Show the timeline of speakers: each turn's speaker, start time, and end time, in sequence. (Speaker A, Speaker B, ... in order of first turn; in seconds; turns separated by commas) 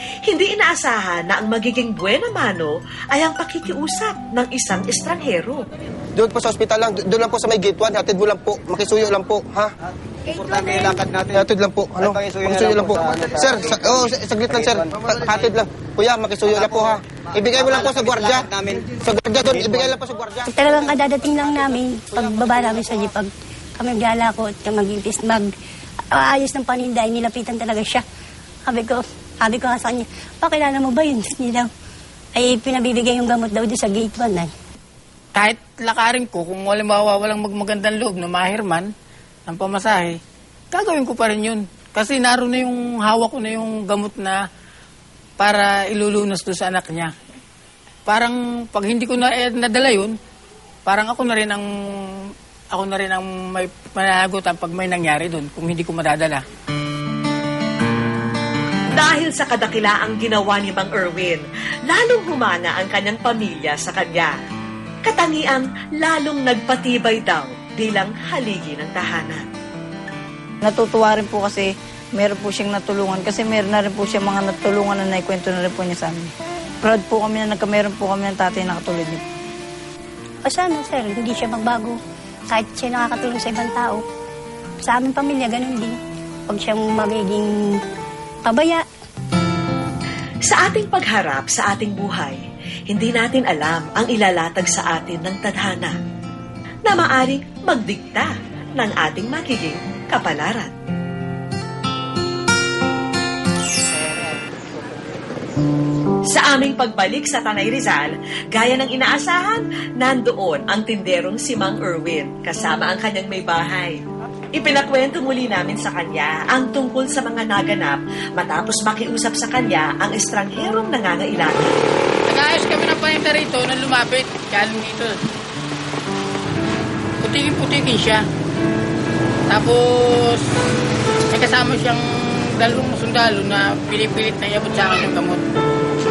Speaker A: 0.3-5.6, Speaker B: 6.2-9.7, Speaker C: 10.3-11.3, Speaker B: 11.3-20.5, Speaker C: 12.1-13.7, Speaker C: 14.5-14.9, Speaker C: 17.6-18.9, Speaker C: 19.5-19.9, Speaker D: 20.5-25.5, Speaker D: 26.1-28.0, Speaker D: 28.7-31.7, Speaker D: 32.4-34.5, Speaker E: 35.3-38.9, Speaker E: 39.5-40.2, Speaker E: 40.7-44.4, Speaker E: 45.4-47.1, Speaker E: 48.1-50.1, Speaker E: 50.9-52.1, Speaker E: 52.7-56.4, Speaker A: 58.9-64.3, Speaker A: 65.0-69.5, Speaker F: 70.6-79.2, Speaker D: 80.5-82.0, Speaker D: 82.5-84.0, Speaker D: 84.9-86.0, Speaker D: 86.5-87.4, Speaker D: 88.5-88.8, Speaker A: 90.5-92.4, Speaker A: 92.9-96.0, Speaker A: 96.9-100.7, Speaker A: 106.3-114.0, Speaker A: 114.5-121.8, Speaker E: 122.3-125.2, Speaker E: 127.2-128.2, Speaker E: 129.5-130.4, Speaker E: 131.3-135.4